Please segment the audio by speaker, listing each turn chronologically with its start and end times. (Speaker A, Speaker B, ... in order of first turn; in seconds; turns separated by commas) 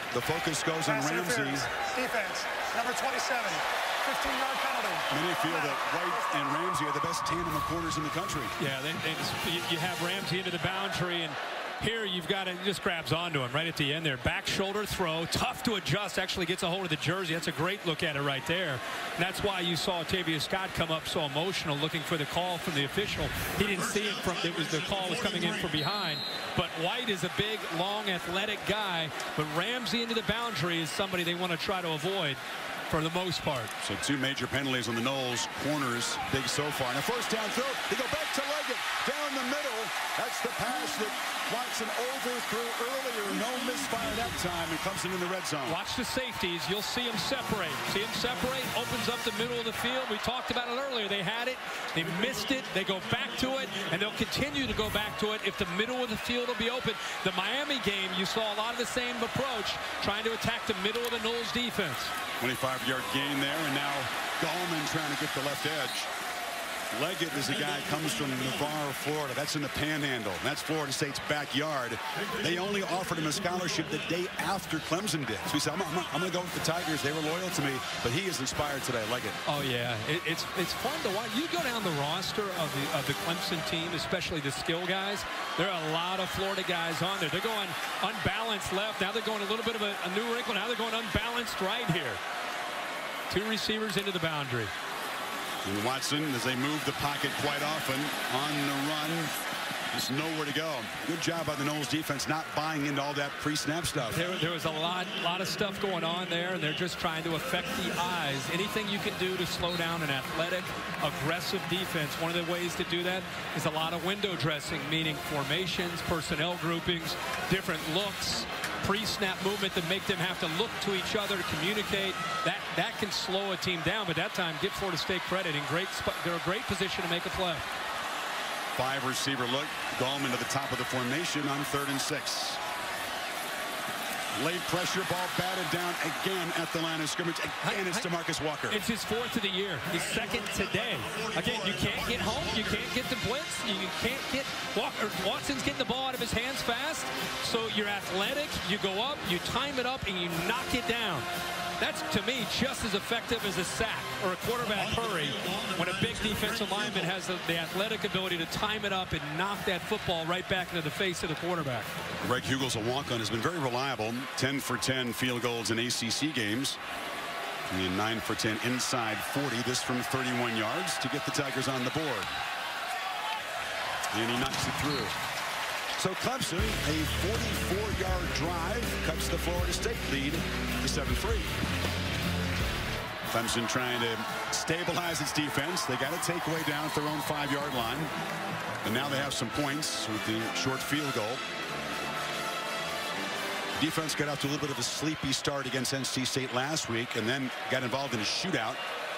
Speaker A: 0.1-1.7, Speaker B: 0.9-5.8, Speaker A: 5.1-8.6, Speaker C: 8.6-33.7, Speaker A: 33.8-45.8, Speaker C: 45.7-62.1, Speaker A: 62.4-66.1, Speaker A: 66.9-79.4, Speaker C: 79.5-92.2, Speaker C: 93.3-94.7, Speaker A: 95.7-99.3, Speaker A: 99.9-104.2, Speaker C: 104.1-127.7, Speaker A: 128.8-132.6, Speaker A: 134.3-138.8, Speaker C: 137.6-138.1, Speaker C: 138.7-151.3, Speaker C: 151.8-161.9, Speaker A: 162.2-166.8, Speaker A: 167.7-172.3, Speaker A: 174.1-175.2, Speaker A: 176.0-181.5, Speaker A: 183.3-188.1, Speaker A: 188.8-191.4, Speaker A: 193.8-198.8